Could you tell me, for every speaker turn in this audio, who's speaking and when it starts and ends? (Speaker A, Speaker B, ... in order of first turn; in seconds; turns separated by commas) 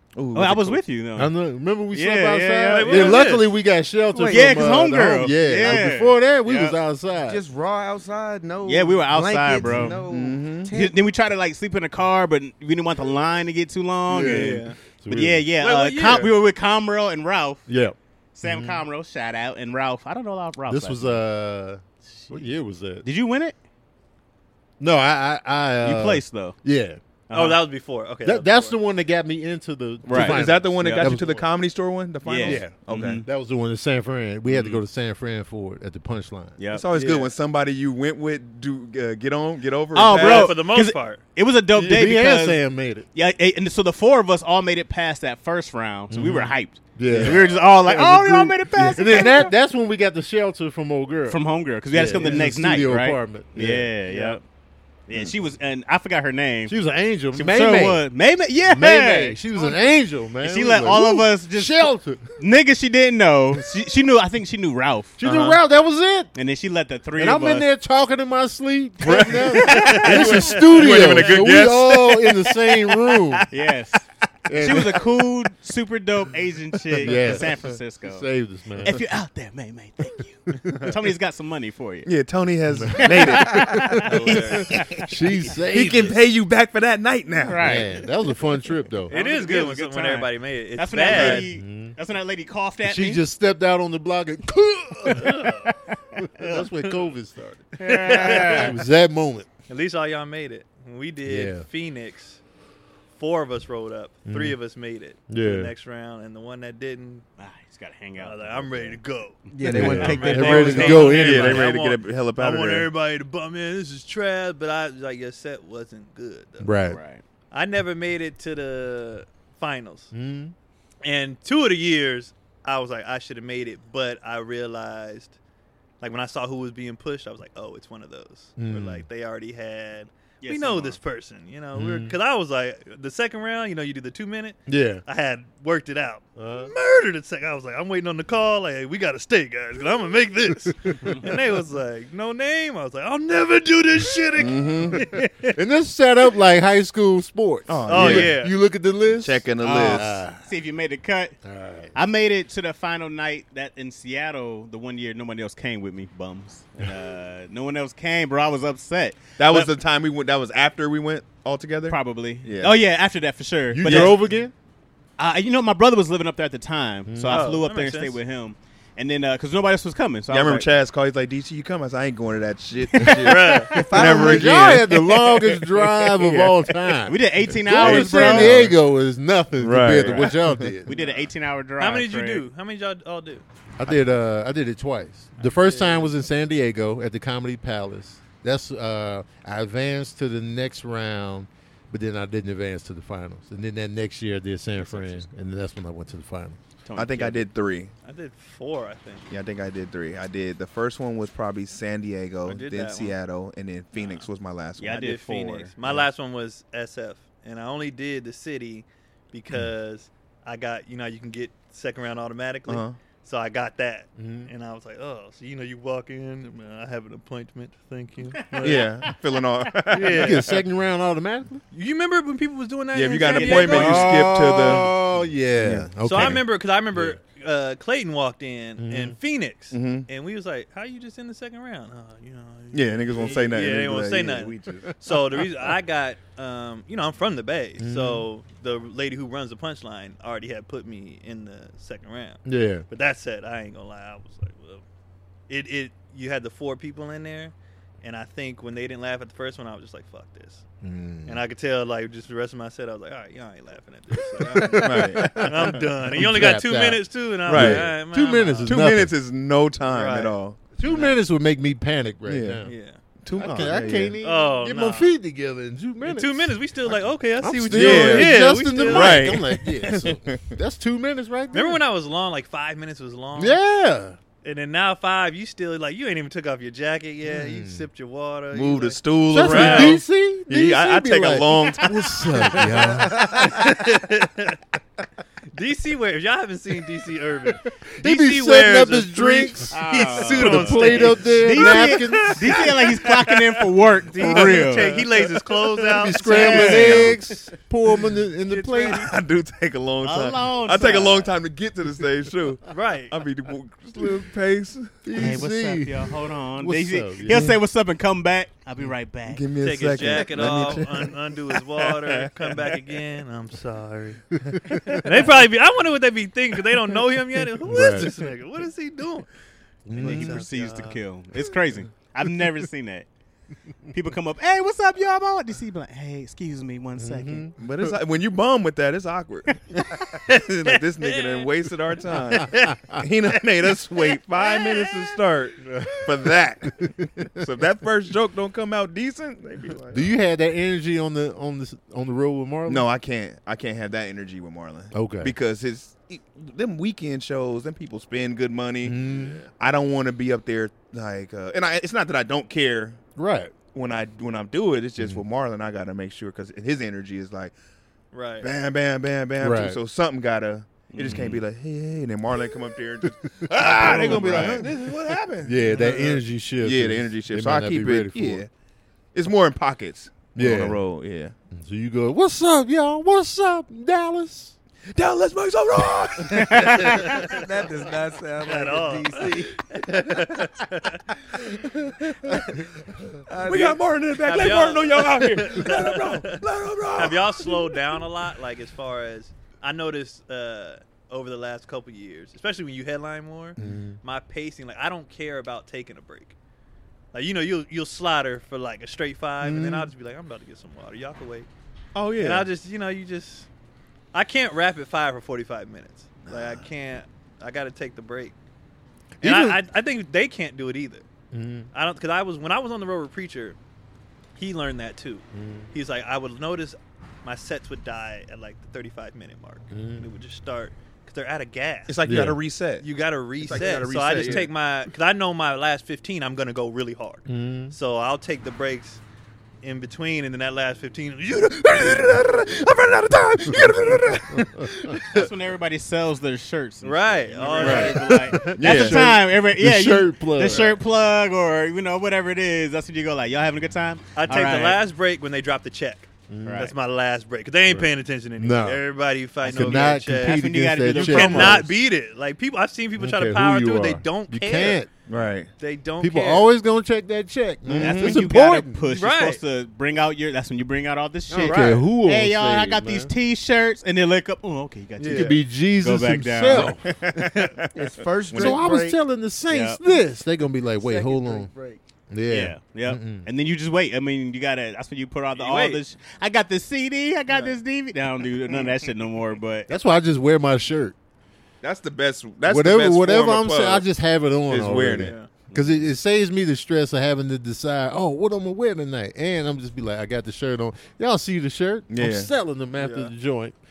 Speaker A: 0.1-0.8, Speaker B: 0.3-1.3, Speaker C: 1.1-7.4, Speaker B: 1.9-3.2, Speaker D: 2.7-3.5, Speaker E: 4.1-4.8, Speaker B: 4.2-6.8, Speaker E: 7.3-10.9, Speaker B: 8.6-10.0, Speaker C: 9.7-10.0, Speaker A: 10.1-10.7, Speaker B: 10.7-17.7, Speaker C: 14.1-15.5, Speaker D: 14.2-14.8, Speaker D: 15.6-16.3, Speaker C: 17.7-18.8, Speaker B: 18.3-21.1, Speaker C: 20.7-23.1, Speaker B: 23.0-23.6, Speaker C: 24.8-27.0, Speaker B: 25.8-26.6, Speaker B: 27.3-27.6, Speaker D: 27.3-28.8, Speaker C: 28.2-31.4, Speaker B: 30.0-31.2, Speaker A: 30.1-33.2, Speaker B: 32.2-33.2, Speaker C: 32.4-36.6, Speaker B: 34.5-34.8, Speaker B: 36.6-37.2, Speaker A: 36.7-40.6, Speaker B: 39.9-42.6, Speaker D: 40.1-41.2, Speaker A: 41.8-42.1, Speaker C: 41.8-43.0, Speaker B: 43.1-49.5, Speaker C: 46.1-54.4, Speaker A: 47.1-47.5, Speaker B: 51.3-54.4, Speaker B: 55.1-56.7, Speaker C: 56.7-58.0, Speaker B: 57.3-59.4, Speaker C: 58.7-62.4, Speaker B: 60.4-65.2, Speaker C: 65.2-66.3, Speaker A: 65.2-65.6, Speaker B: 66.3-67.7, Speaker C: 67.2-73.5, Speaker A: 69.0-73.4, Speaker D: 69.5-71.4, Speaker B: 73.5-78.2, Speaker C: 74.5-75.1, Speaker C: 77.0-79.0, Speaker B: 78.8-82.1, Speaker C: 80.5-80.9, Speaker A: 82.0-85.1, Speaker C: 82.7-86.2, Speaker B: 83.0-85.0, Speaker A: 85.7-87.8, Speaker B: 87.4-87.9, Speaker C: 87.6-89.1, Speaker D: 89.1-91.5, Speaker B: 89.1-93.2, Speaker A: 91.0-91.4, Speaker C: 91.3-91.9, Speaker C: 92.8-99.5, Speaker D: 95.1-95.7, Speaker B: 96.4-96.7, Speaker D: 96.7-97.1, Speaker B: 97.8-98.8, Speaker D: 97.9-98.7, Speaker D: 99.7-102.4, Speaker C: 101.2-101.7, Speaker D: 103.1-107.2, Speaker C: 104.2-104.6, Speaker C: 105.3-105.7, Speaker B: 107.4-109.0, Speaker D: 108.2-116.7, Speaker E: 109.5-111.0, Speaker B: 109.6-110.8, Speaker C: 109.6-111.7, Speaker A: 110.5-112.9, Speaker C: 116.6-117.0, Speaker B: 116.9-117.2, Speaker D: 117.5-120.1, Speaker C: 120.1-120.5, Speaker D: 121.0-125.3, Speaker D: 126.0-145.6, Speaker C: 128.6-129.0, Speaker B: 130.4-131.0, Speaker C: 131.7-132.1, Speaker C: 134.7-135.0, Speaker C: 136.4-136.7, Speaker A: 144.3-145.0, Speaker C: 144.9-150.4, Speaker A: 147.7-148.4, Speaker D: 147.8-148.5, Speaker A: 149.2-150.2, Speaker B: 149.6-151.4, Speaker C: 151.4-151.9, Speaker B: 151.9-159.6, Speaker A: 159.4-162.8, Speaker B: 161.9-164.2, Speaker C: 163.7-164.5, Speaker A: 163.8-164.1, Speaker B: 165.2-170.7, Speaker C: 167.1-167.4, Speaker D: 167.3-168.2, Speaker A: 170.3-176.9, Speaker B: 173.0-173.5, Speaker D: 173.2-173.8, Speaker E: 173.7-174.8, Speaker C: 173.9-180.9, Speaker B: 177.0-178.7, Speaker A: 177.6-178.7, Speaker A: 179.6-180.8, Speaker B: 180.8-182.4, Speaker D: 180.9-181.2, Speaker D: 181.8-183.4, Speaker C: 183.8-196.6, Speaker D: 185.4-186.1, Speaker B: 194.8-195.3, Speaker B: 196.8-197.4, Speaker A: 196.9-197.9, Speaker D: 198.0-199.3, Speaker A: 199.3-205.2, Speaker D: 202.4-203.2, Speaker D: 203.9-204.2, Speaker B: 204.8-205.7, Speaker D: 204.9-218.9, Speaker A: 212.7-213.0, Speaker C: 214.2-214.5, Speaker B: 218.4-219.1, Speaker A: 218.6-220.6, Speaker D: 219.9-220.6, Speaker C: 219.9-221.6, Speaker D: 221.7-224.3, Speaker A: 222.9-225.0, Speaker B: 223.2-224.0, Speaker C: 223.6-226.4, Speaker A: 225.6-226.4, Speaker D: 226.0-244.8, Speaker C: 228.8-229.2, Speaker A: 229.7-230.1, Speaker A: 232.7-234.9, Speaker C: 237.8-238.2, Speaker C: 242.4-242.8, Speaker D: 245.5-250.6, Speaker C: 250.8-251.4, Speaker D: 251.2-258.8, Speaker C: 254.3-259.1, Speaker A: 254.4-255.9, Speaker A: 257.5-257.9, Speaker A: 258.6-260.6, Speaker D: 259.8-261.1, Speaker C: 260.8-262.7, Speaker A: 262.2-264.2, Speaker D: 262.6-265.1, Speaker C: 263.3-266.6, Speaker D: 266.0-269.4, Speaker C: 267.4-271.8, Speaker A: 267.7-270.6, Speaker D: 271.5-273.6, Speaker C: 273.3-274.2, Speaker D: 274.4-280.0, Speaker C: 277.2-277.9, Speaker A: 278.5-282.9, Speaker C: 279.3-283.8, Speaker D: 282.3-284.6, Speaker D: 285.5-297.2, Speaker C: 287.8-292.7, Speaker B: 289.7-295.0, Speaker A: 294.2-297.1, Speaker C: 296.0-299.1, Speaker B: 296.3-297.1, Speaker A: 298.8-305.1, Speaker B: 300.0-301.3, Speaker D: 302.7-303.2, Speaker C: 305.0-307.6, Speaker B: 305.1-309.4, Speaker A: 309.3-313.0, Speaker D: 309.6-319.3, Speaker C: 314.5-315.0, Speaker C: 317.6-318.1, Speaker C: 319.9-320.4, Speaker D: 319.9-321.0, Speaker B: 320.0-323.1, Speaker B: 323.9-327.5, Speaker C: 327.0-327.9, Speaker A: 327.5-340.1, Speaker D: 329.9-331.5, Speaker D: 332.1-335.2, Speaker C: 332.6-332.9, Speaker C: 335.6-337.4, Speaker C: 339.9-342.9, Speaker A: 342.7-353.0, Speaker C: 344.9-345.3, Speaker C: 348.8-349.4, Speaker C: 353.1-353.5, Speaker A: 353.7-357.5, Speaker C: 355.0-355.2, Speaker D: 358.1-358.5, Speaker A: 358.4-368.5, Speaker C: 359.4-359.8, Speaker B: 360.9-361.4, Speaker C: 363.0-364.7, Speaker D: 363.9-364.5, Speaker B: 364.1-364.6, Speaker C: 365.4-368.4, Speaker A: 369.1-371.3, Speaker C: 370.3-370.8, Speaker C: 371.5-374.5, Speaker A: 374.9-377.4, Speaker B: 376.3-377.1, Speaker E: 377.0-379.6, Speaker D: 378.4-381.4, Speaker E: 383.3-383.8, Speaker A: 383.4-387.9, Speaker D: 383.5-386.4, Speaker D: 386.9-396.3, Speaker C: 393.6-394.0, Speaker D: 397.1-401.5, Speaker C: 399.4-399.9, Speaker A: 401.9-402.4, Speaker D: 402.2-403.5, Speaker D: 404.1-408.3, Speaker A: 406.3-406.6, Speaker C: 409.2-409.6, Speaker D: 409.2-411.0, Speaker C: 411.3-411.7, Speaker D: 411.7-413.6, Speaker D: 414.4-422.3, Speaker C: 415.3-415.7, Speaker C: 419.7-420.1, Speaker A: 421.9-422.9, Speaker C: 422.0-422.4, Speaker D: 422.8-429.0, Speaker A: 423.4-424.5, Speaker C: 427.3-427.7, Speaker D: 429.6-435.0, Speaker C: 434.3-435.2, Speaker B: 435.0-444.8, Speaker D: 436.8-438.5, Speaker A: 437.6-438.0, Speaker C: 437.6-440.7, Speaker A: 438.5-439.1, Speaker D: 444.1-454.8, Speaker C: 446.3-446.7, Speaker B: 446.4-446.7, Speaker C: 448.4-448.8, Speaker C: 449.4-451.7, Speaker B: 449.6-451.7, Speaker C: 453.0-454.9, Speaker A: 455.1-455.5, Speaker D: 455.6-456.5, Speaker C: 456.0-458.8, Speaker A: 457.6-458.3, Speaker B: 457.7-466.8, Speaker D: 458.9-459.4, Speaker C: 461.3-463.1, Speaker A: 465.0-465.4, Speaker C: 465.1-466.8, Speaker A: 466.5-468.6, Speaker E: 467.7-469.0, Speaker C: 468.3-471.5, Speaker B: 469.5-469.8, Speaker E: 470.8-471.8, Speaker C: 472.1-473.3, Speaker B: 472.3-479.7, Speaker D: 475.4-475.8, Speaker D: 477.3-477.6, Speaker C: 479.7-480.9, Speaker A: 481.6-483.8, Speaker C: 482.4-493.6, Speaker A: 484.5-485.2, Speaker D: 484.9-485.3, Speaker B: 485.5-485.8, Speaker A: 491.9-492.3, Speaker D: 492.8-493.1